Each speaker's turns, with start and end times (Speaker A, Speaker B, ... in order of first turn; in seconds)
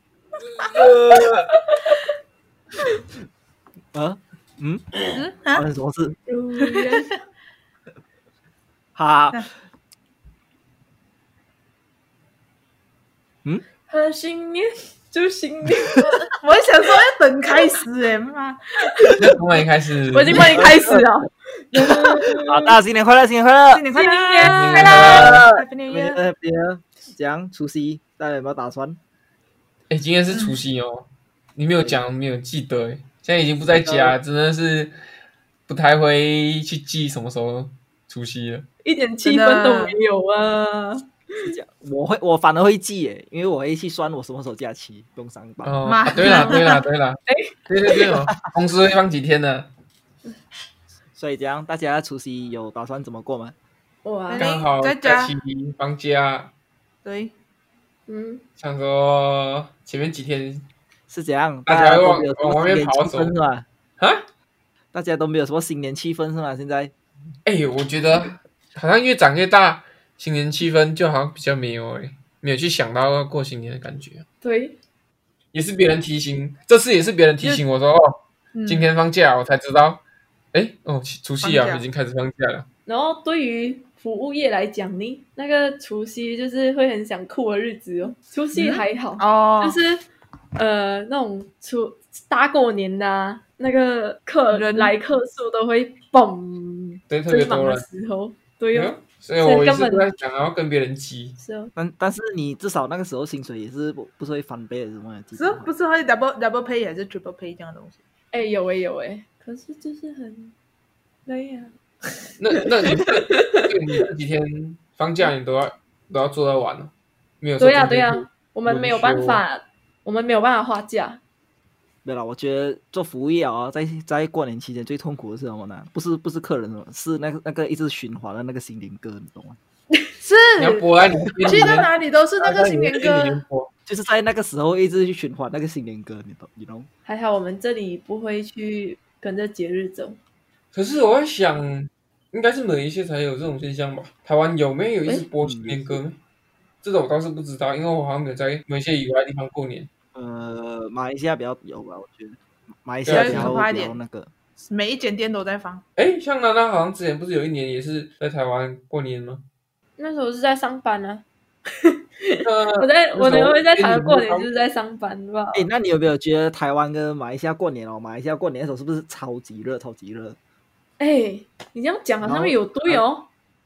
Speaker A: 0.6-1.5, 19.2-20.6, 24.4-25.4, 29.9-35.0, 35.7-38.6, 45.6-49.7, 54.4-56.5, 58.6-60.6, 61.6-63.3, 64.0-64.2, 67.5-74.2, 75.5-78.1, 78.7-80.0, 80.5-82.7, 97.1-97.8, 98.7-101.3, 112.4-119.4, 130.6-131.9, 132.4-133.7, 140.7-146.2, 146.8-149.9, 153.0-153.6, 155.9-159.4, 162.4-164.5
Speaker B: 3.9-6.2, 8.9-9.4, 20.3-21.1, 21.7-23.9, 24.7-29.0, 33.6-34.2, 41.4-45.8, 51.1-53.5, 61.1-63.6, 64.9-66.9, 101.8-105.7, 122.0-129.6, 133.9-136.9, 145.4-146.0, 150.1-154.3, 165.5-170.4, 172.2-173.0
Speaker C: 5.1-5.6, 6.6-7.1, 16.2-19.2, 23.7-26.2, 30.3-30.6, 39.2-40.0, 45.9-46.7, 54.3-55.3, 57.0-57.3, 78.5-78.9, 81.4-81.8, 88.5-89.8, 94.5-94.9, 105.4-108.0, 130.2-130.9, 131.4-133.4, 153.1-154.0, 154.6-155.8
Speaker D: 6.3-7.1, 13.9-16.2, 20.1-22.8, 23.9-25.0, 38.8-41.5, 46.2-46.7, 47.3-47.5, 54.0-54.5, 58.1-58.4, 74.4-74.8, 82.8-90.0, 90.5-100.1, 101.4-101.7, 108.3-110.5, 111.2-113.7, 117.6-121.2, 137.1-140.2, 160.0-161.2, 161.8-165.6, 171.0-173.3